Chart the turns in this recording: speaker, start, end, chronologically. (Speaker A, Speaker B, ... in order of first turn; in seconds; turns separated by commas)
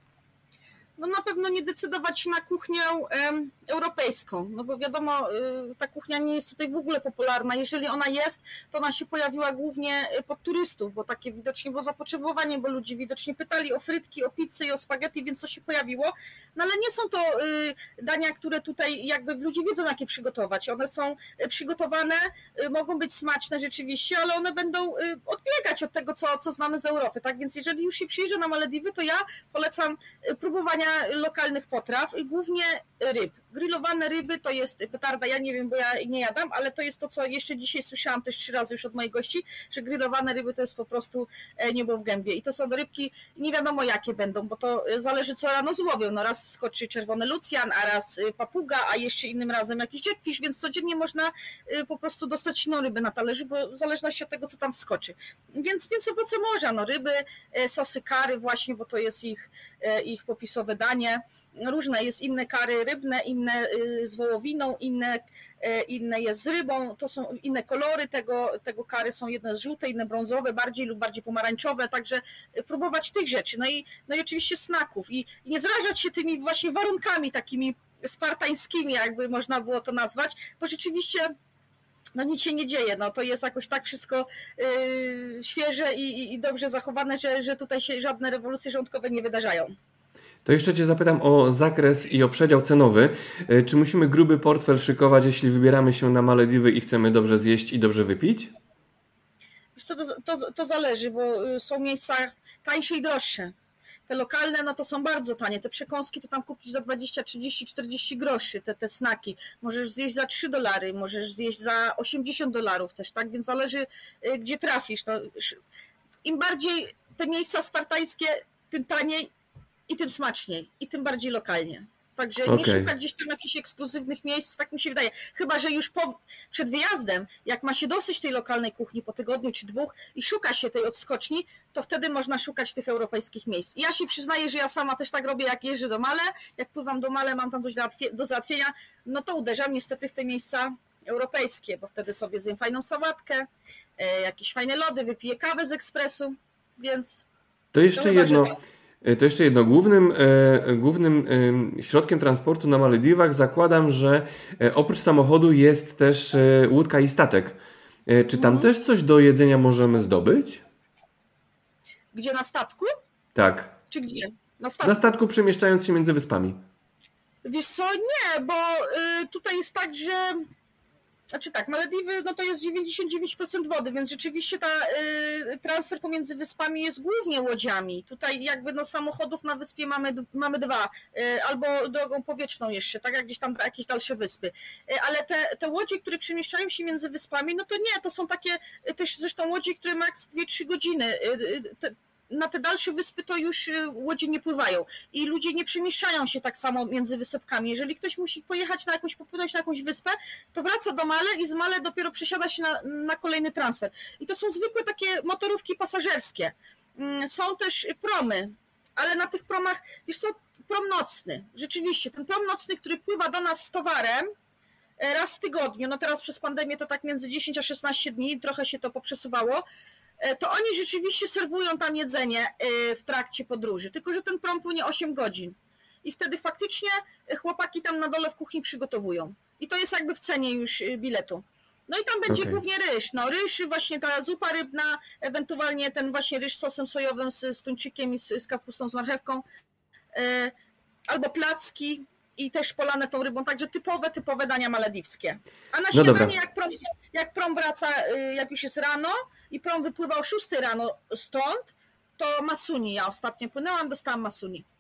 Speaker A: 1.0-81.3, Speaker A: 82.2-89.7, Speaker B: 90.4-98.5, Speaker A: 99.8-103.5, Speaker A: 104.1-115.6, Speaker A: 116.2-119.3, Speaker A: 119.9-147.3, Speaker B: 122.5-122.9, Speaker B: 147.7-157.6, Speaker A: 147.9-148.6, Speaker B: 158.1-160.6, Speaker A: 158.3-158.7, Speaker A: 162.1-162.9, Speaker B: 163.3-163.7, Speaker A: 163.9-165.0, Speaker B: 164.8-166.6, Speaker A: 167.4-170.4, Speaker A: 171.3-214.3, Speaker A: 215.0-219.6, Speaker A: 220.2-239.4, Speaker B: 232.3-232.6, Speaker A: 240.1-240.5, Speaker A: 241.1-254.7, Speaker B: 245.9-246.3